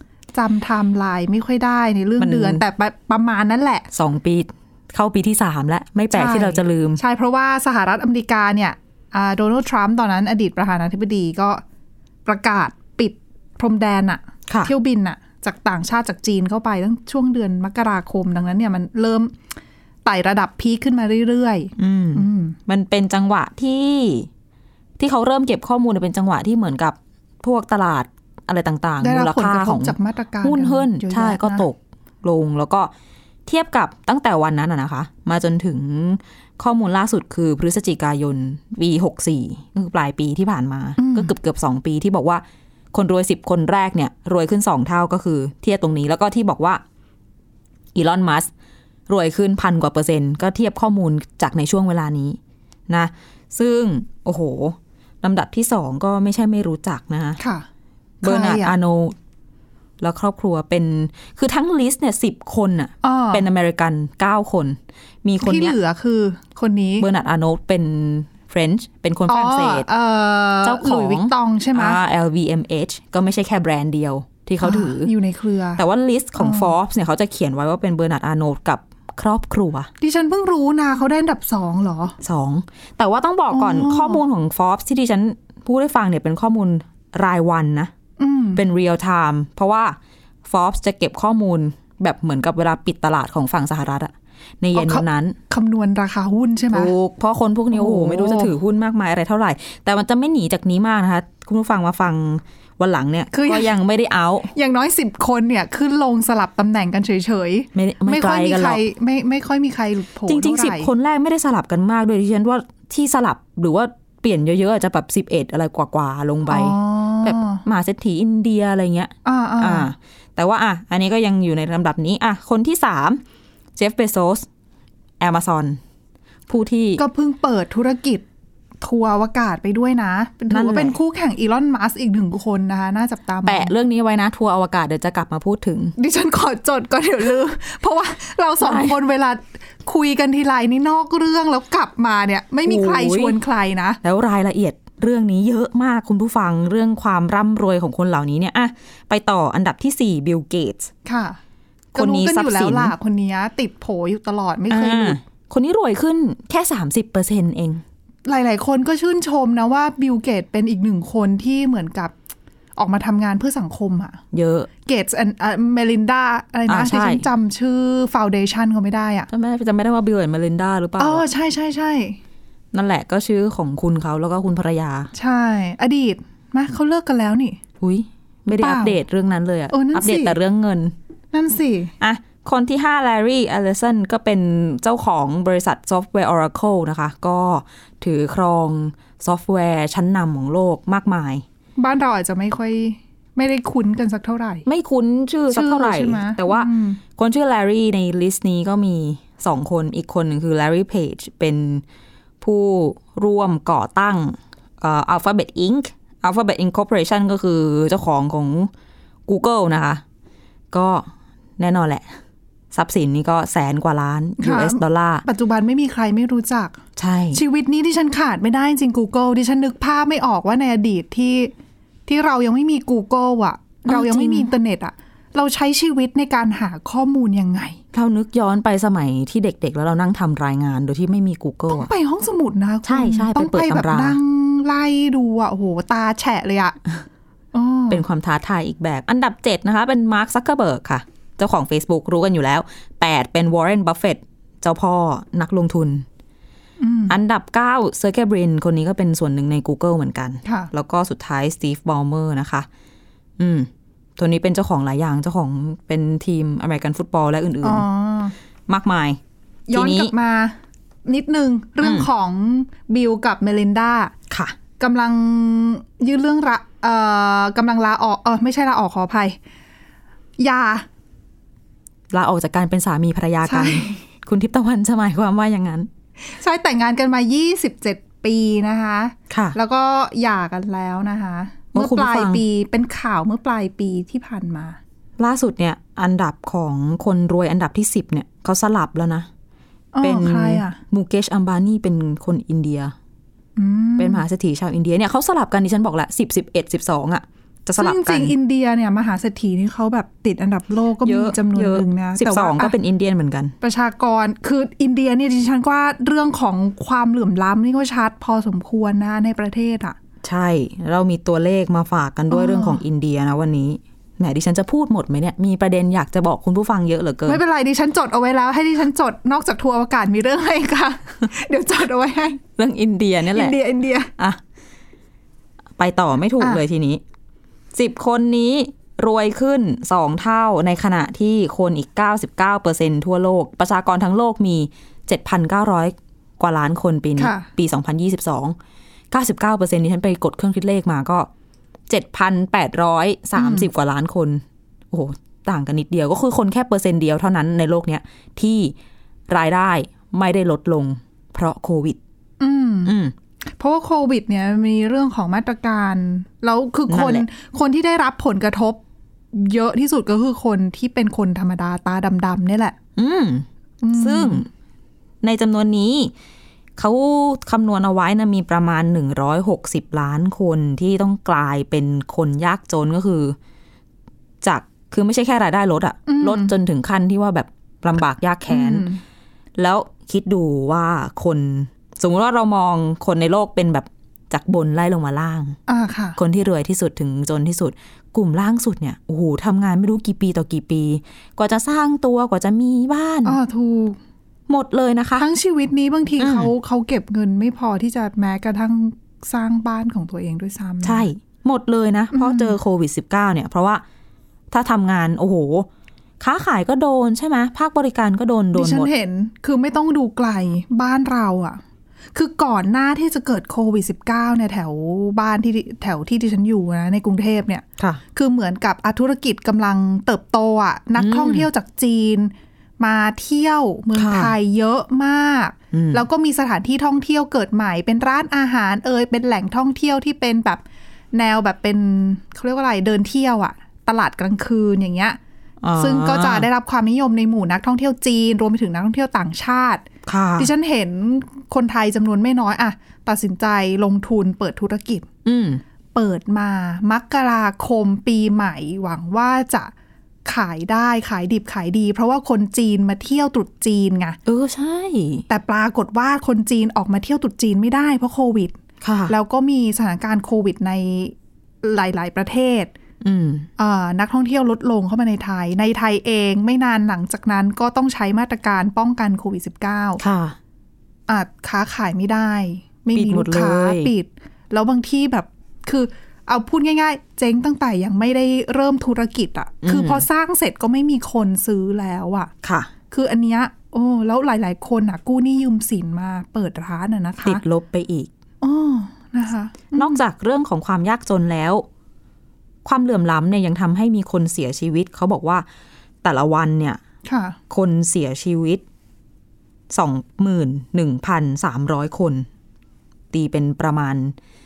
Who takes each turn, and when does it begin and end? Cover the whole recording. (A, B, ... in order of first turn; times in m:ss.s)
0:00.3-0:03.9 A
0:02.2-0:02.6 B
0:03.9-0:07.0 B
0:06.1-0:11.6 A
0:12.2-0:19.4 A
0:20.0-0:22.6 A
0:21.8-0:24.3 B
0:25.0-0:32.9 B
0:29.0-0:31.6 A
0:33.4-0:46.8 B
0:41.0-0:41.3 A
0:47.9-0:48.5 B
0:49.1-0:57.4 B
0:57.4-0:57.6 A
0:58.2-0:59.2 B
0:58.2-0:58.7 A
1:00.0-1:05.7 B
1:03.0-1:03.4 A
1:05.4-1:07.1 A
1:07.0-1:09.9 B
1:09.3-1:12.0 A
1:10.6-1:15.1 B
1:14.6-1:15.8 A
1:15.8-1:19.9 B
1:16.4-1:16.7 A
1:20.0-1:22.2 A
1:22.2-1:27.9 B
1:23.5-1:24.2 A
1:28.2-1:28.6 A
1:28.5-1:35.4 B
1:34.7-1:36.9 A
1:36.7-1:44.5 B
1:37.7-1:38.5 A
1:43.3-1:43.7 A
1:44.5-1:50.9 A
1:47.7-1:48.8 B
1:50.3-2:03.2 B
1:56.5-1:57.6 A
1:59.2-1:59.9 A
2:03.8-2:04.5 B
2:05.2-2:05.8 B
2:06.5-2:07.0 B
2:07.0-2:08.2 A
2:08.8-2:13.7 A
2:10.5-2:11.0 B
2:13.4-2:15.9 B
2:16.0-2:24.0 A
2:18.6-2:19.0 B
2:22.6-2:23.4 B
2:24.0-2:30.9 B
2:31.0-2:31.4 A
2:31.9-2:35.2 A
2:31.9-2:32.9 B
2:34.7-2:37.8 B
2:38.2-2:42.1 A
2:42.8-2:44.2 A
2:44.3-2:44.7 B
2:44.8-2:49.3 A
2:46.7-2:47.2 B
2:49.3-2:51.2 B
2:51.0-2:52.2 A
2:52.7-2:55.1 B
2:55.1-2:57.6 A
2:57.8-3:00.9 B
2:58.6-2:59.0 A
2:59.7-3:00.4 A
3:01.3-3:01.9 A
3:02.0-3:11.4 B
3:11.8-3:14.6 A
3:14.6-3:21.8 B
3:15.5-3:17.0 A
3:22.4-3:28.7 B
3:29.3-3:30.0 B
3:30.7-3:32.1 B
3:32.7-3:35.2 B
3:34.4-3:36.8 A
3:37.0-3:37.4 B
3:37.3-3:41.5 A
3:42.0-3:47.8 A
3:43.8-3:44.5 B
3:47.9-3:51.9 B
3:51.7-3:56.8 A
3:52.8-3:54.2 B
3:57.5-3:58.0 A
3:57.9-4:06.0 B
4:06.8-4:07.2 A
4:07.1-4:12.7 B
4:10.4-4:10.7 A
4:13.4-4:17.8 B
4:17.6-4:18.3 A
4:18.7-4:19.2 B
4:19.7-4:20.5 A
4:19.7-4:20.1 B
4:21.0-4:24.1 A
4:21.8-4:22.1 B
4:24.3-4:24.6 B
4:24.8-4:29.4 A
4:30.4-4:30.8 A
4:32.1-4:35.9 B
4:33.4-4:34.0 A
4:36.3-4:44.8 A
4:39.3-4:39.6 B
4:41.7-4:42.4 B
4:45.2-4:49.3 B
4:49.9-4:50.8 A
4:50.0-4:52.9 B
4:53.6-4:54.2 A
4:54.0-4:58.3 B
4:57.8-5:02.7 A
5:01.0-5:03.5 B
5:03.6-5:10.0 A
5:10.2-5:17.4 B
5:12.3-5:12.8 A
5:17.2-5:22.4 A
5:22.6-5:23.6 B
5:23.3-5:24.1 A
5:25.8-5:27.0 B
5:27.7-5:38.6 B
5:37.2-5:37.5 A
5:39.1-5:41.3 B
5:41.9-5:48.7 B
5:43.4-5:43.7 A
5:49.3-5:52.0 B
5:52.4-5:52.9 A
5:52.8-5:53.1 B
5:53.6-5:58.8 A
5:56.9-5:57.2 B
5:59.3-6:02.8 A
6:03.0-6:04.5 B
6:03.8-6:04.4 A
6:05.2-6:06.1 B
6:06.8-6:13.4 B
6:14.4-6:18.9 B
6:16.1-6:16.5 A
6:18.5-6:19.0 A
6:19.6-6:25.6 B
6:25.7-6:26.2 A
6:26.2-6:33.4 B
6:33.2-6:34.0 A
6:34.5-6:35.2 B
6:35.2-6:41.1 A
6:36.2-6:36.5 B
6:40.8-6:43.8 B
6:42.1-6:42.6 A
6:44.5-6:45.7 B
6:46.2-6:48.9 B
6:48.5-6:51.6 A
6:52.1-7:10.6 A
7:01.0-7:01.5 B
7:03.9-7:04.3 B
7:05.7-7:06.0 B
7:11.1-7:15.2 A
7:15.6-7:16.5 B
7:15.8-7:19.8 A
7:20.0-7:20.5 B
7:20.4-7:25.1 A
7:25.2-7:25.6 B
7:25.9-7:29.7 A
7:30.2-7:34.2 A
7:34.2-7:35.2 B
7:35.3-7:38.6 A
7:38.8-7:39.1 B
7:39.1-7:42.7 A
7:43.0-7:43.5 B
7:43.6-7:50.0 A
7:50.0-7:50.4 B
7:51.1-8:02.3 A
7:52.9-7:53.9 B
7:59.6-8:00.0 B
8:02.4-8:02.7 B
8:02.9-8:07.4 A
8:07.2-8:08.1 B
8:08.4-8:10.0 A
8:09.7-8:11.6 B
8:12.6-8:15.4 B
8:16.0-8:16.8 B
8:17.0-8:17.4 A
8:17.5-8:18.6 B
8:19.7-8:22.3 B
8:23.1-8:24.1 B